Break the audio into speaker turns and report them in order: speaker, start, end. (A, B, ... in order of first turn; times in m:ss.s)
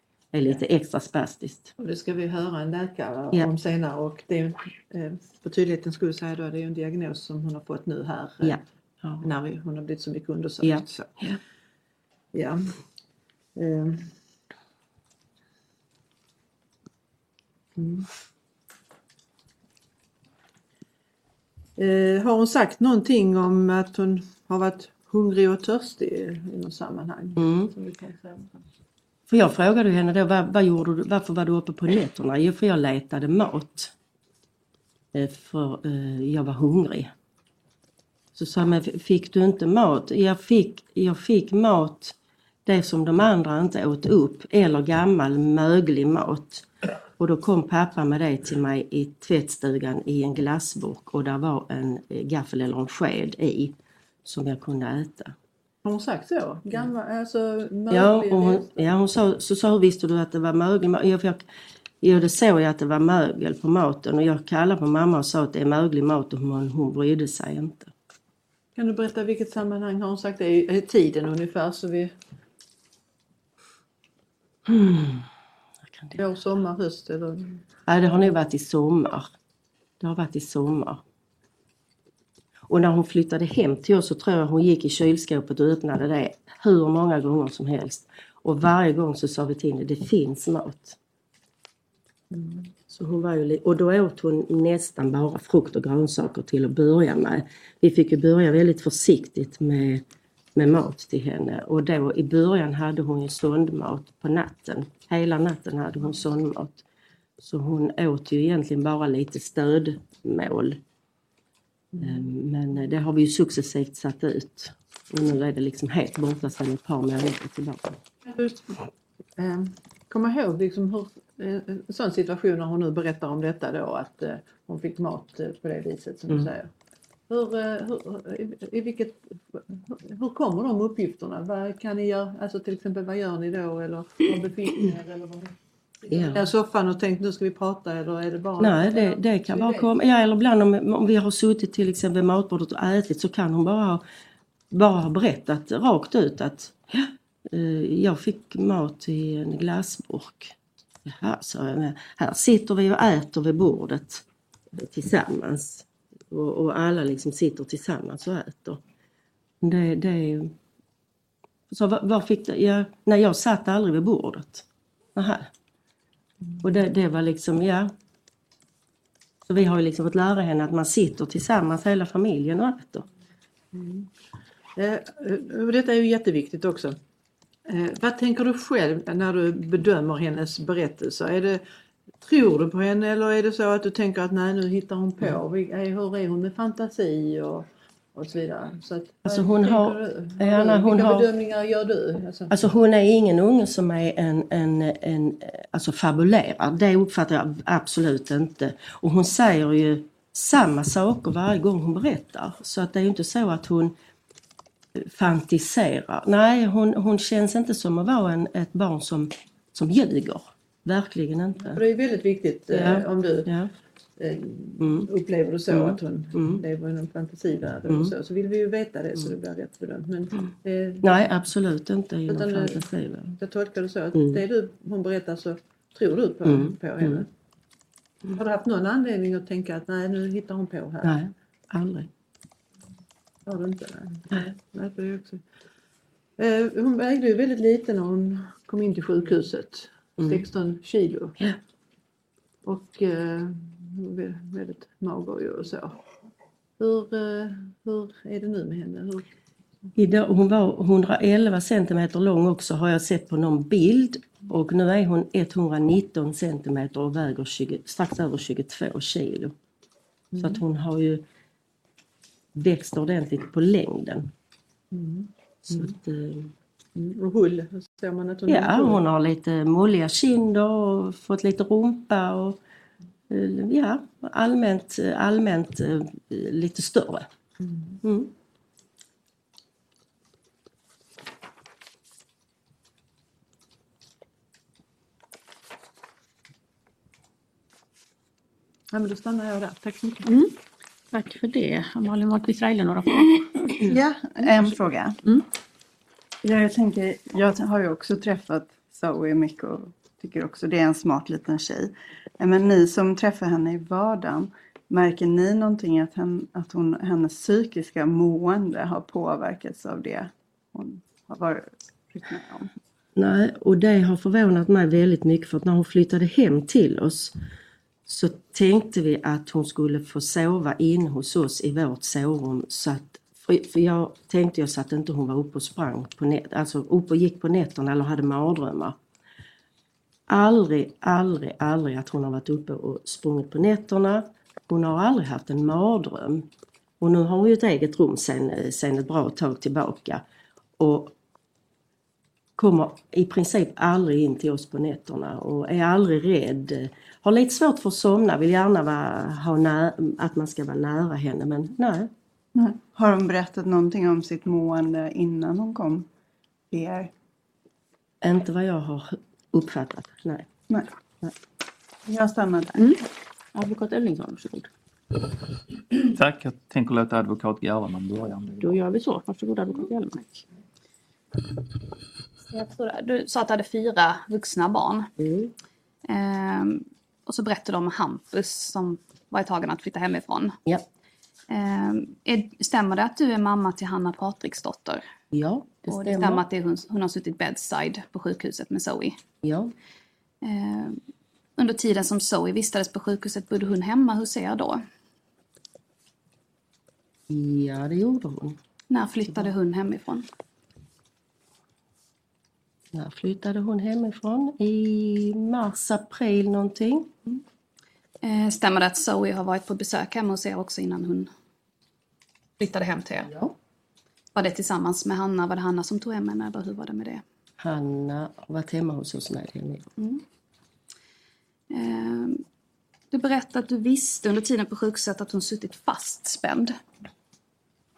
0:00.3-0:01.7 A
0:01.8-0:08.6 B
0:08.4-0:09.3 A
0:09.2-0:11.3 B
0:10.6-0:11.4 A
0:12.3-0:12.8 B
0:13.6-0:14.2 B
0:17.8-0:18.1 B
0:21.8-0:28.6 B
0:27.4-0:27.7 A
0:29.3-0:33.9 A
0:35.1-0:37.1 A
0:38.4-0:55.4 A
0:55.8-0:58.8 B
0:57.9-1:01.4 A
1:02.0-1:07.9 A
1:08.8-1:12.1 B
1:14.7-1:15.3 A
1:15.9-1:16.2 A
1:16.2-1:17.6 B
1:17.9-1:19.3 A
1:20.0-1:21.0 A
1:22.7-1:31.0 A
1:32.3-1:32.7 B
1:32.9-1:40.0 A
1:40.6-1:46.8 A
1:47.4-1:50.8 A
1:51.9-1:52.3 B
1:52.0-1:58.0 A
1:58.2-1:58.8 B
1:59.4-2:06.7 B
2:07.3-2:19.9 B
2:16.1-2:16.4 A
2:18.6-2:24.0 A
2:24.7-2:38.8 A
2:39.6-2:40.6 A
2:41.7-2:45.5 A
2:46.6-2:47.9 A
2:49.5-2:53.1 A
2:53.7-2:54.1 B
2:54.8-2:57.0 B
2:57.7-3:01.6 B
3:02.2-3:12.5 B
3:09.2-3:11.3 A
3:12.5-3:24.0 A
3:25.0-3:31.8 A
3:31.7-3:33.5 B
3:32.7-3:33.7 A
3:34.2-3:41.1 B
3:34.8-3:35.1 A
3:35.7-3:36.6 A
3:37.9-3:38.1 A
3:41.0-3:43.4 A
3:42.3-3:42.8 B
3:43.4-3:47.3 B
3:44.2-3:44.4 A
3:46.4-3:47.2 A
3:48.3-3:51.2 B
3:51.0-3:52.1 A
3:53.5-3:55.4 B
3:56.4-4:01.4 B
4:00.2-4:00.4 A
4:02.7-4:06.0 B
4:06.8-4:09.3 B
4:10.0-4:19.6 A
4:20.4-4:20.6 B
4:20.4-4:21.2 A
4:22.6-4:24.3 A
4:24.9-4:25.9 B
4:25.7-4:26.5 A
4:27.0-4:29.0 B
4:28.5-4:32.6 A
4:33.3-4:37.3 A
4:38.0-4:38.3 A
4:48.9-4:50.3 B
4:50.2-4:50.5 C
4:51.1-4:53.9 C
4:53.9-4:55.2 D
4:56.4-5:12.7 D
5:13.2-5:17.4 A
5:18.1-5:29.0 A
5:30.3-5:36.5 A
5:37.0-5:40.2 A
5:40.8-5:41.2 A
5:42.6-5:52.1 A
5:52.6-5:56.1 D
5:56.7-5:57.1 D
5:58.2-6:00.5 A
6:02.1-6:03.0 D
6:03.6-6:04.7 C
6:06.1-6:08.8 E
6:08.6-6:10.4 C
6:12.5-6:15.1 F
6:15.2-6:15.5 A
6:16.1-6:20.6 F
6:21.5-6:25.0 F
6:25.3-6:26.4 A
6:25.9-6:29.2 F
6:29.4-6:29.7 A
6:30.4-6:31.0 F
6:31.6-6:34.8 F
6:37.3-6:38.6 A
6:38.9-6:40.3 F
6:42.9-6:47.2 A
6:48.2-6:51.3 F
6:52.6-6:53.3 F
6:53.3-6:53.5 A
6:54.4-6:57.2 F
6:57.6-6:59.9 A
7:00.0-7:00.2 F
7:01.7-7:02.4 F
7:03.1-7:06.8 F